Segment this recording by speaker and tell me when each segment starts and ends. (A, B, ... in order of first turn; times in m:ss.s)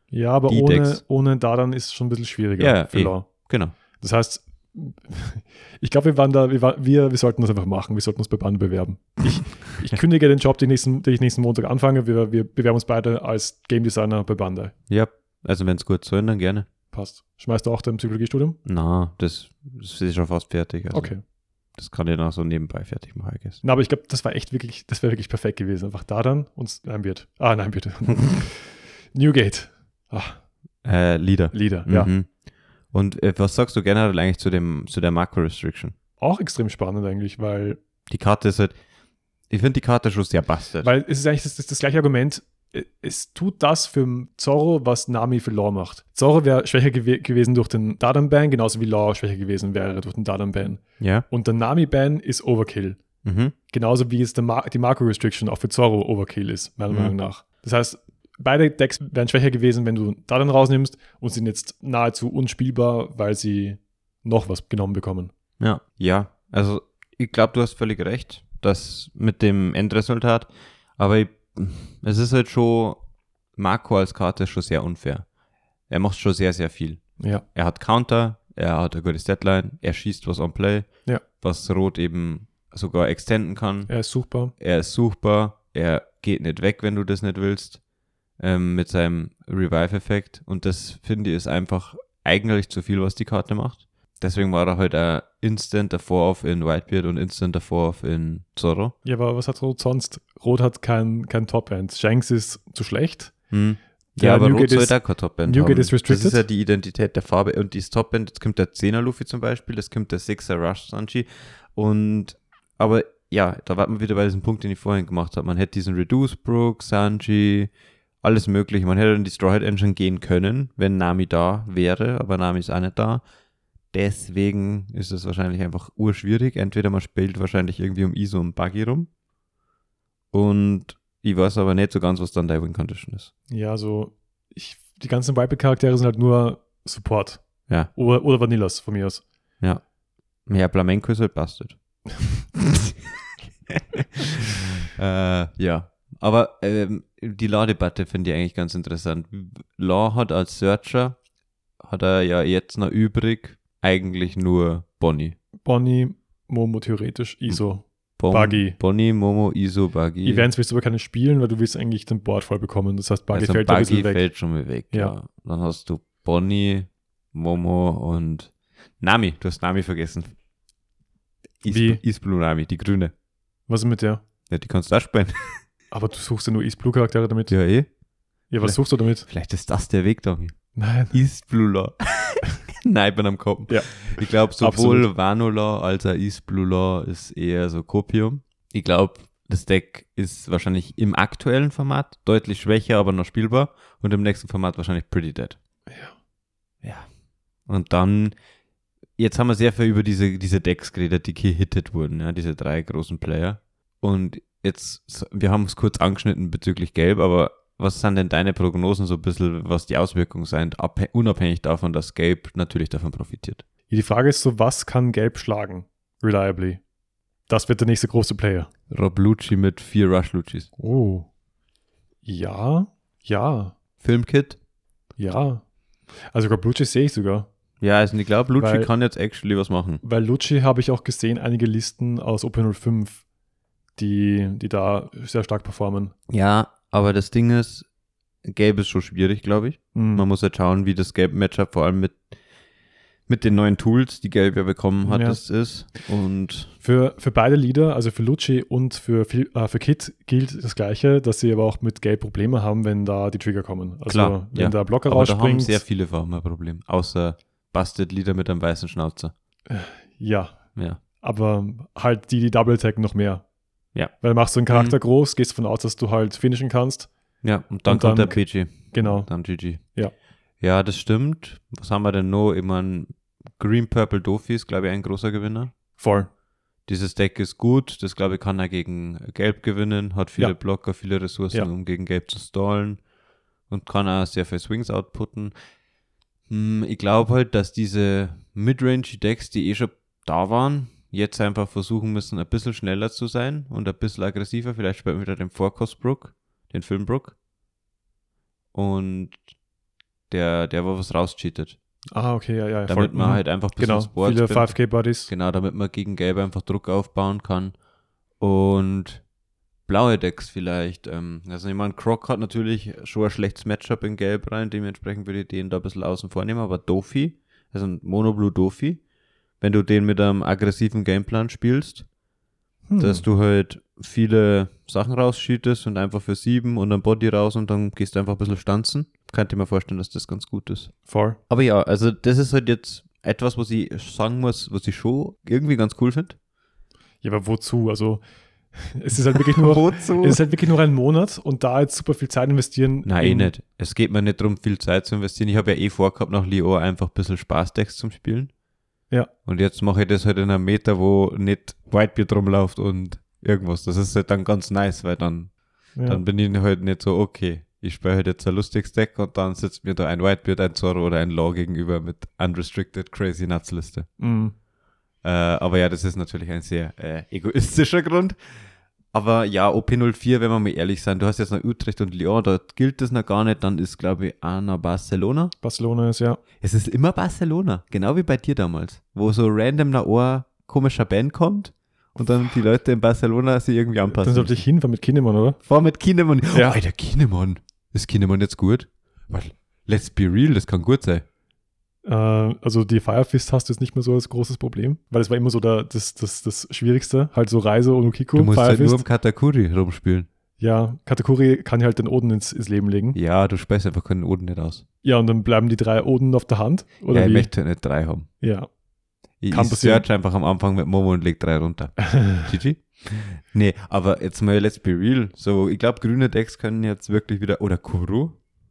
0:00.1-0:03.3 A
0:00.5-0:01.0 B
0:02.6-0:03.7 B
0:04.0-0:14.7 A
0:14.9-0:16.7 B
0:16.9-0:18.6 A
0:18.6-0:21.1 B
0:20.9-0:21.2 A
0:21.8-0:23.6 B
0:23.6-0:30.4 A
0:30.8-0:32.3 B
0:31.5-0:32.1 A
0:32.9-0:35.9 B
0:36.2-0:37.8 A
0:38.1-0:38.7 B
0:39.5-0:40.9 B
0:40.8-0:53.0 A
0:51.0-0:51.3 B
0:53.2-0:53.5 B
0:53.7-1:05.3 A
1:05.6-1:13.0 B
1:13.6-1:15.2 B
1:15.9-1:20.9 B
1:17.2-1:17.4 A
1:21.4-1:23.9 B
1:23.9-1:24.5 A
1:24.6-1:27.8 B
1:28.4-1:39.0 B
1:39.0-1:43.3 A
1:43.5-1:57.7 B
1:44.2-1:46.4 A
1:58.2-2:03.2 B
2:03.9-2:09.1 B
2:10.3-2:13.3 B
2:13.5-2:19.2 A
2:20.5-2:21.8 B
2:22.6-2:23.0 B
2:23.7-2:31.2 B
2:31.8-2:35.4 B
2:35.6-2:38.8 A
2:38.2-2:40.5 B
2:40.2-2:44.2 A
2:43.3-2:50.3 B
2:51.6-2:53.1 B
2:51.7-2:52.0 A
2:53.7-2:54.2 A
2:54.5-2:55.6 B
2:55.9-2:57.5 A
2:57.5-2:57.9 B
2:58.5-2:59.3 A
2:58.6-3:00.6 B
3:00.8-3:01.2 A
3:01.1-3:15.6 B
3:03.7-3:05.1 A
3:15.9-3:16.2 A
3:16.8-3:17.1 B
3:17.7-3:18.4 B
3:19.2-3:33.6 B
3:33.9-3:36.8 A
3:37.5-3:38.7 A
3:38.9-3:40.7 B
3:40.8-3:41.3 A
3:42.2-3:43.8 A
3:44.0-3:44.6 B
3:45.2-3:45.6 A
3:46.3-3:47.5 A
3:47.8-3:50.0 B
3:48.6-3:48.9 A
3:50.0-3:53.2 A
3:54.0-3:56.2 A
3:56.3-3:57.9 B
3:58.4-4:02.2 B
4:00.0-4:00.2 A
4:03.3-4:06.7 B
4:05.0-4:05.4 A
4:06.8-4:15.8 A
4:14.1-4:19.3 B
4:19.7-4:20.6 A
4:21.2-4:23.4 A
4:24.2-4:27.1 A
4:24.7-4:25.0 B
4:27.4-4:29.8 B
4:27.9-4:30.1 A
4:30.6-4:35.7 B
4:36.0-4:36.3 A
4:36.9-4:43.0 B
4:43.7-4:45.6 B
4:46.5-4:57.4 B
4:58.7-4:59.4 B
5:00.3-5:01.8 B
5:02.1-5:05.3 A
5:02.9-5:04.7 B
5:05.3-5:07.7 B
5:08.4-5:09.2 B
5:09.9-5:19.0 B
5:19.6-5:22.1 B
5:22.9-5:23.2 A
5:23.0-5:30.9 B
5:31.1-5:31.4 A
5:31.5-5:36.4 B
5:37.2-5:38.2 A
5:38.7-5:43.5 A
5:39.3-5:40.4 B
5:43.0-5:48.5 B
5:49.5-5:55.5 B
5:56.0-5:56.2 A
5:56.0-6:04.1 B
6:04.2-6:04.6 A
6:05.2-6:08.4 B
6:09.1-6:15.5 B
6:15.6-6:16.4 A
6:16.6-6:24.6 B
6:24.1-6:25.6 A
6:25.6-6:31.2 B
6:32.0-6:39.0 A
6:38.4-6:40.3 B
6:40.6-6:43.2 A
6:43.1-6:44.8 B
6:45.0-6:47.5 A
6:47.1-6:48.3 B
6:48.4-6:48.7 A
6:49.4-6:58.4 B
6:49.5-6:50.1 A
6:52.2-6:52.4 A